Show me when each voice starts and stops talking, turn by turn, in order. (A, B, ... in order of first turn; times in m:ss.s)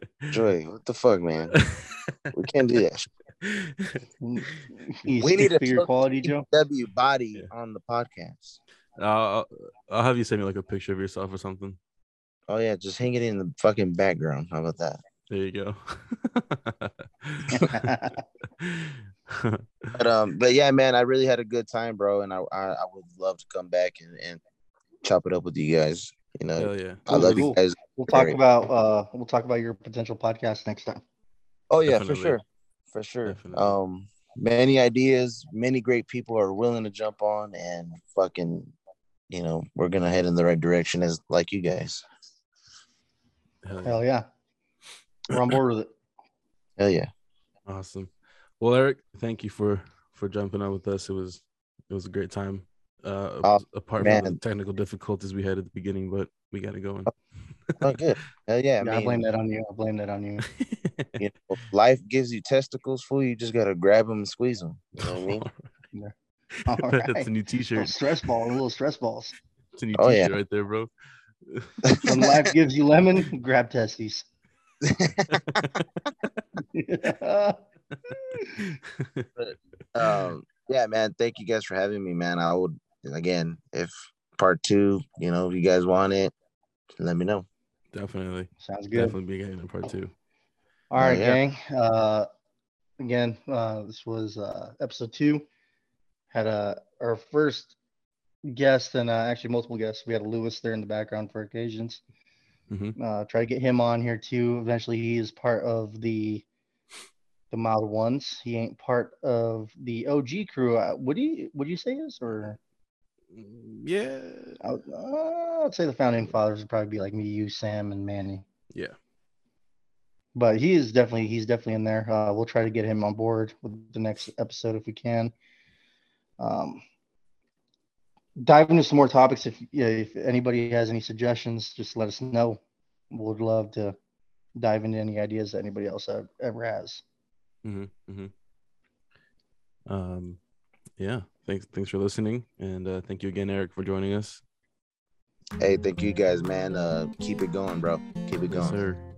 0:00.3-0:01.6 A
0:01.5-0:02.3 B
0:02.3-0:03.1 A
0:03.4-0:04.6 B
0:04.2-0:06.5 C
0:05.2-0:08.6 A
0:09.0-0:11.8 B
0:12.5-0:15.0 A
0:15.3-0:20.0 B
0:17.5-0:18.2 C
0:20.0-0:24.4 A
0:25.0-0:28.4 A
0:26.6-0:27.5 B
0:27.1-0:31.0 C
0:31.7-0:38.7 A
0:31.9-0:32.4 B
0:33.3-0:33.8 B
0:39.3-0:42.0 A
0:43.6-0:44.0 B
0:43.8-0:44.3 C
0:45.3-0:45.9 C
0:46.8-0:47.1 A
0:47.7-0:57.1 B
0:53.4-0:54.4 A
0:57.7-0:58.0 B
0:57.8-0:59.3 A
0:58.8-1:00.4 C
1:00.5-1:01.2 B
1:01.2-1:05.4 A
1:05.0-1:05.7 B
1:06.7-1:09.4 C
1:06.7-1:08.0 B
1:09.8-1:10.9 B
1:10.0-1:10.4 A
1:11.5-1:12.0 B
1:11.8-1:12.4 A
1:12.0-1:14.3 C
1:14.8-1:15.4 A
1:15.3-1:15.8 B
1:16.7-1:17.6 C
1:18.6-1:19.3 B
1:19.4-1:26.3 A
1:27.0-1:27.5 A
1:27.9-1:30.1 B
1:28.6-1:29.2 C
1:30.9-1:32.3 C
1:31.0-1:31.4 A
1:33.0-1:35.5 C
1:36.3-1:37.8 C
1:38.4-1:42.0 C
1:42.7-1:43.0 B
1:43.0-1:46.4 C
1:47.5-1:52.6 C
1:53.3-1:54.6 B
1:54.6-1:58.4 C
2:00.4-2:05.3 C
2:06.4-2:06.8 C
2:08.4-2:12.6 C
2:13.1-2:14.0 C
2:14.6-2:17.0 C
2:17.6-2:18.3 B
2:19.9-2:20.4 B
2:21.0-2:24.4 B
2:25.6-2:28.8 A
2:28.5-2:29.0 B